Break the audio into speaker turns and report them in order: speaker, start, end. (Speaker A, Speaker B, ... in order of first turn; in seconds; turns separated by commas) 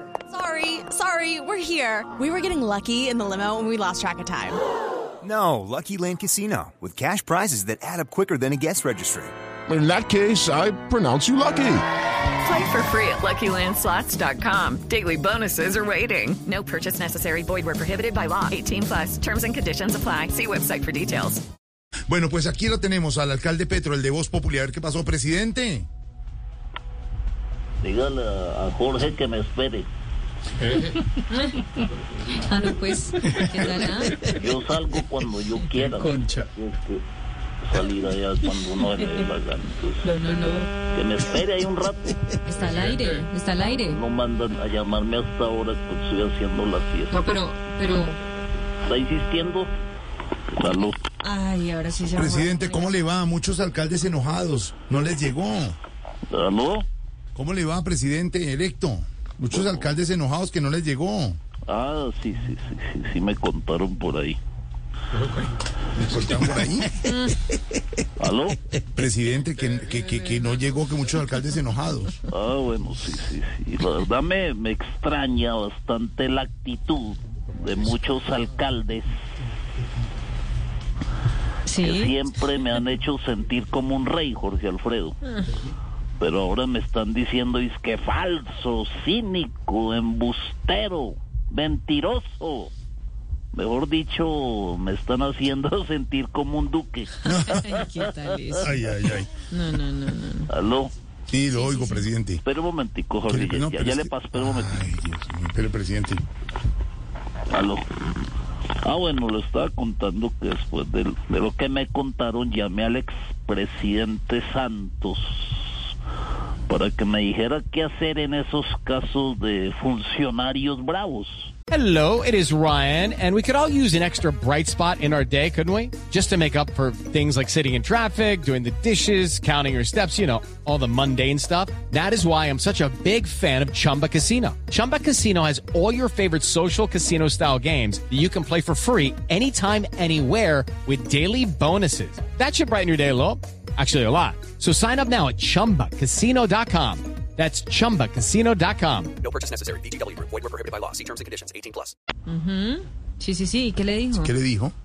Speaker A: 0.3-4.6, Speaker B: 5.2-9.3, Speaker C: 9.7-11.8, Speaker D: 12.4-21.4, Speaker E: 22.1-25.9, Speaker F: 27.8-29.9, Speaker G: 32.5-34.1, Speaker F: 34.0-37.0, Speaker F: 37.6-40.3, Speaker G: 40.2-40.5, Speaker F: 40.9-42.2, Speaker G: 42.5-44.0, Speaker H: 43.0-43.2, Speaker F: 43.7-47.3, Speaker G: 47.2-48.1, Speaker F: 48.8-49.7, Speaker F: 50.6-51.0, Speaker G: 51.2-52.9, Speaker E: 52.1-55.8, Speaker F: 56.3-56.9, Speaker E: 57.3-61.4, Speaker F: 59.5-59.8, Speaker F: 61.7-64.4, Speaker E: 65.9-67.6, Speaker F: 68.2-68.6, Speaker E: 68.9-72.2, Speaker F: 72.3-79.1, Speaker G: 81.7-82.1, Speaker F: 81.8-85.2, Speaker F: 86.2-92.7, Speaker F: 93.5-98.3, Speaker E: 97.2-97.7, Speaker G: 97.5-98.7, Speaker E: 98.6-99.3, Speaker G: 99.5-100.5, Speaker F: 100.5-100.9, Speaker E: 101.3-102.4, Speaker G: 101.5-102.0, Speaker F: 102.4-104.8, Speaker E: 103.3-106.2, Speaker F: 107.5-107.8, Speaker F: 108.8-115.8, Speaker F: 116.7-121.5, Speaker H: 121.7-149.1, Speaker I: 149.2-151.8, Speaker G: 152.3-154.3, Speaker E: 154.1-154.7